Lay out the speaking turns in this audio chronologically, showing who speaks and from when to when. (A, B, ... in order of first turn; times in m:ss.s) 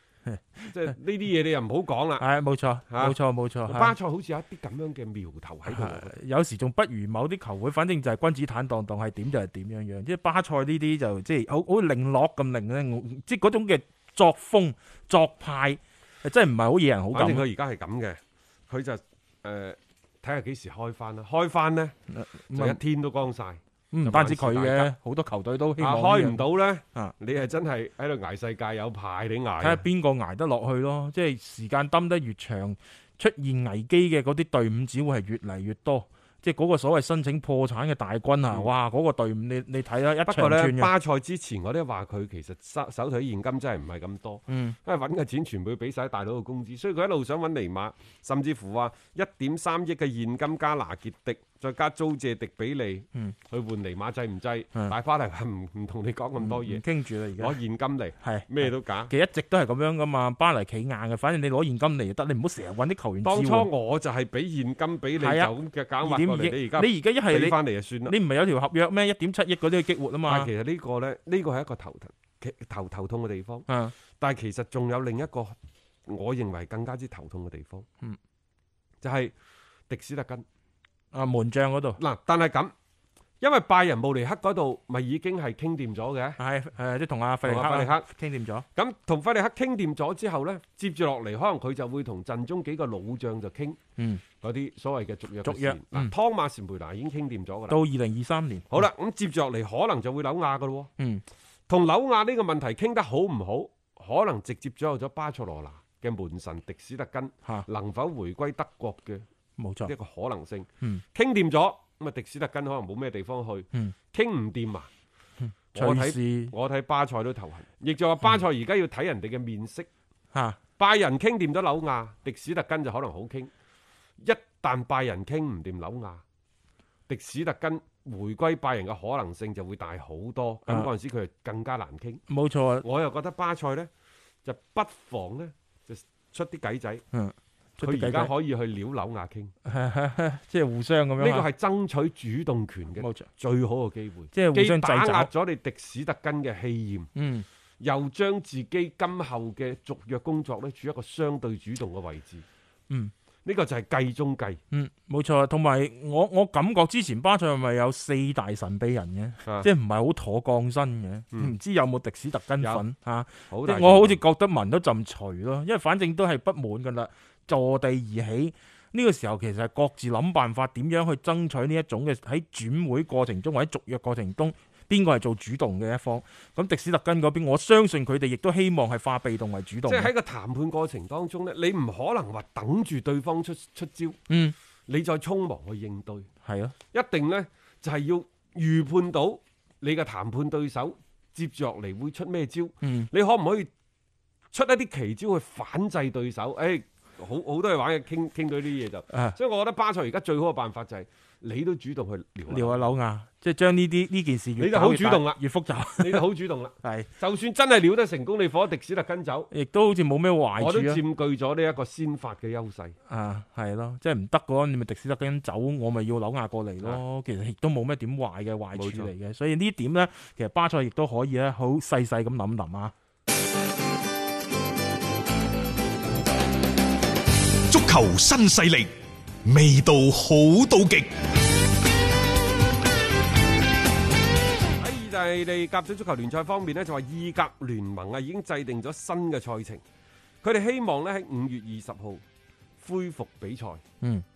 0:00.3-0:00.9 A
0:00.7-0:02.2 B
0:02.2-0:03.9 A
0:02.9-0:06.1 B
0:05.7-0:17.4 A
0:17.1-0:22.0 B
0:22.1-0:22.8 A
0:22.5-0:24.9 B
0:23.9-0:27.1 A
0:25.8-0:29.8 B
0:29.6-0:40.9 A
0:40.2-0:56.8 B
0:44.5-0:44.8 A
0:56.4-0:57.6 A
0:57.4-0:59.1 B
0:58.2-1:03.7 A
1:03.2-1:08.1 B
1:05.2-1:10.5 A
1:10.3-1:17.8 B
1:13.7-1:13.9 A
1:19.0-1:19.3 B
1:19.9-1:20.4 B
1:21.1-1:22.0 A
1:22.0-1:22.7 B
1:23.4-1:26.4 B
1:26.4-1:28.6 A
1:27.4-1:28.1 B
1:28.7-1:33.8 B
1:34.4-1:37.8 B
1:35.4-1:36.1 A
1:37.7-1:38.9 A
1:38.7-1:40.9 B
1:41.7-1:49.2 B
1:49.6-1:49.9 A
1:49.8-1:54.9 B
1:55.4-1:56.5 A
1:55.7-1:59.9 B
2:00.3-2:00.6 A
2:00.8-2:03.5 B
2:04.2-2:06.2 B
2:07.1-2:12.2 B
2:12.3-2:12.8 A
2:12.8-2:13.9 B
2:14.4-2:17.0 B
2:17.1-2:18.3 A
2:17.8-2:19.5 B
2:19.6-2:21.4 A
2:21.2-2:27.1 B
2:23.0-2:23.3 A
2:24.3-2:25.3 A
2:27.1-2:27.4 A
2:27.8-2:32.4 B
2:33.4-2:34.6 B
2:34.7-3:00.1 A
2:43.5-2:44.2 B
2:59.9-3:04.2 B
3:04.3-3:04.5 A
3:04.9-3:06.3 B
3:06.4-3:06.7 A
3:06.9-3:13.7 B
3:12.8-3:13.1 A
3:14.5-3:22.8 B
3:19.1-3:19.4 A
3:22.5-3:26.2 A
3:24.6-3:25.4 B
3:26.0-3:29.5 B
3:26.8-3:27.1 A
3:29.5-3:31.0 A
3:30.6-3:32.9 B
3:33.1-3:42.9 A
3:38.7-3:39.1 B
3:47.7-3:48.9 C
3:49.4-3:51.1 C
3:54.8-3:59.8 B
4:00.4-4:02.2 B
4:02.8-4:03.8 B